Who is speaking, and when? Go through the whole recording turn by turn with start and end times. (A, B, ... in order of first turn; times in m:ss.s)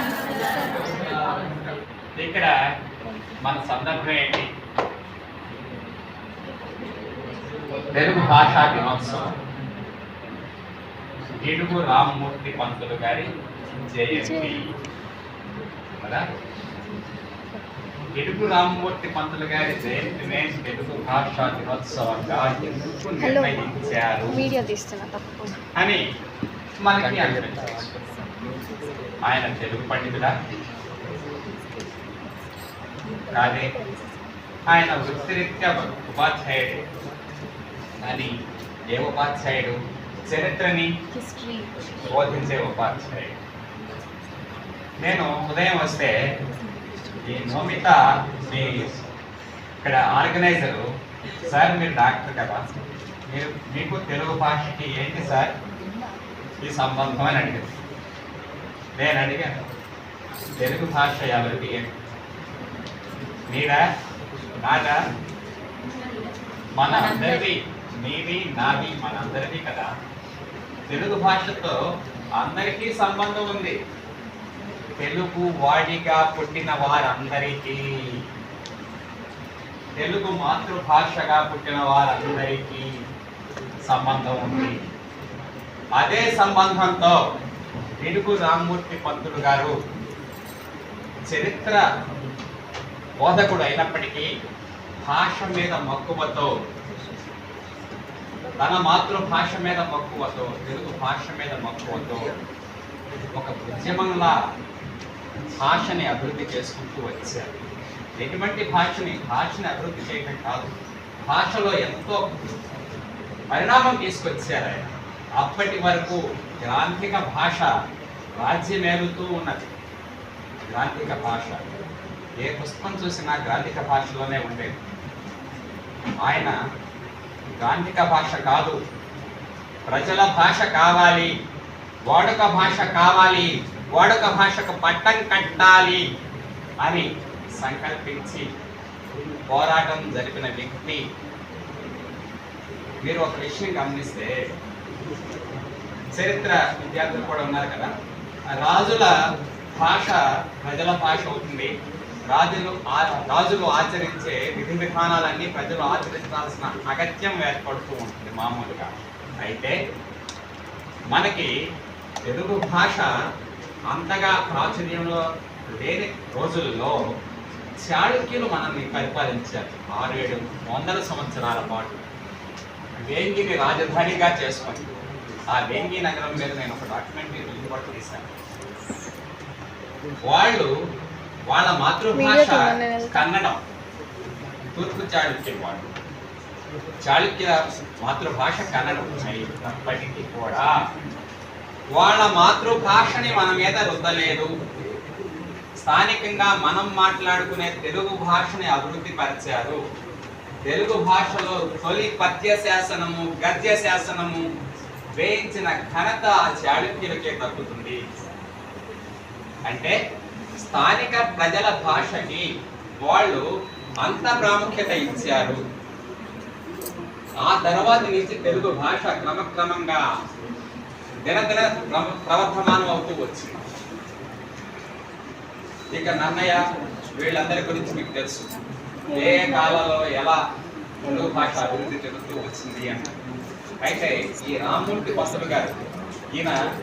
0:02.2-0:02.5 A
0:03.4-0:04.5 A
0:07.9-0:09.3 A
0:11.4-0:13.3 A
0:13.9-0:14.6 A
0:14.1-0:14.5 B
0:18.2-0:24.4 A
0:23.2-0:23.6 B
0:24.3-0:25.5 B
0:26.8-0:27.8 A
0:29.3-0:30.3 A
0:33.3-0:33.7 A
0:34.7-0:36.8 A
0:38.0-0:38.3 A
0:38.9-0:39.8 A
0:40.3-0:40.9 A
0:41.2-0:41.7 B
0:42.0-0:43.3 A
0:45.0-0:46.1 A
0:47.3-0:49.0 A
0:49.8-0:50.8 A
0:51.5-0:52.6 A
0:53.3-0:55.5 A
0:56.6-0:57.6 A
0:59.0-0:59.5 A
1:00.6-1:01.8 A
1:03.5-1:03.8 A
1:04.6-1:05.0 A
1:06.8-1:09.9 A
1:06.9-1:07.5 B
1:10.9-1:11.8 A
1:12.4-1:13.8 A
1:15.0-1:17.8 A
1:20.0-1:22.9 A
1:23.9-1:24.8 A
1:26.0-1:27.2 A
1:28.0-1:29.7 A
1:31.3-1:31.8 A
1:33.2-1:34.3 A
1:35.1-1:36.5 A
1:38.6-1:42.3 A
1:43.3-1:44.3 A
1:45.6-1:47.5 A
1:48.2-1:50.7 A
1:51.3-1:52.2 A
1:53.5-1:57.7 A
1:58.4-1:59.6 A
2:00.7-2:01.6 A
2:02.4-2:04.7 A
2:06.2-2:06.5 A
2:07.6-2:08.8 A
2:09.9-2:11.3 A
2:12.1-2:16.0 A
2:17.6-2:18.4 A
2:19.5-2:21.0 A
2:23.0-2:24.3 A
2:26.1-2:27.9 A
2:28.6-2:29.1 A
2:29.8-2:31.7 A
2:32.3-2:38.9 A
2:39.4-2:39.8 A
2:41.1-2:41.5 A
2:42.3-2:43.1 A
2:43.9-2:45.2 A
2:45.8-2:47.0 A
2:47.8-2:52.0 A
2:53.0-2:54.8 A
2:55.5-2:58.3 A
3:00.3-3:00.7 A
3:01.5-3:03.6 A
3:02.1-3:03.2 B
3:04.8-3:05.8 A
3:07.0-3:10.7 A
3:12.0-3:14.5 A
3:15.8-3:19.8 A
3:20.7-3:24.4 A
3:25.2-3:28.0 A
3:29.7-3:29.9 A
3:30.6-3:32.4 A
3:33.0-3:33.4 A
3:34.0-3:35.6 A
3:37.4-3:40.0 A
3:41.3-3:43.6 A
3:45.9-3:46.6 A
3:47.2-3:48.5 A
3:49.1-3:49.8 B
3:49.2-3:50.4 A
3:51.0-3:53.0 A
3:51.1-3:51.9 B
3:53.8-3:55.8 A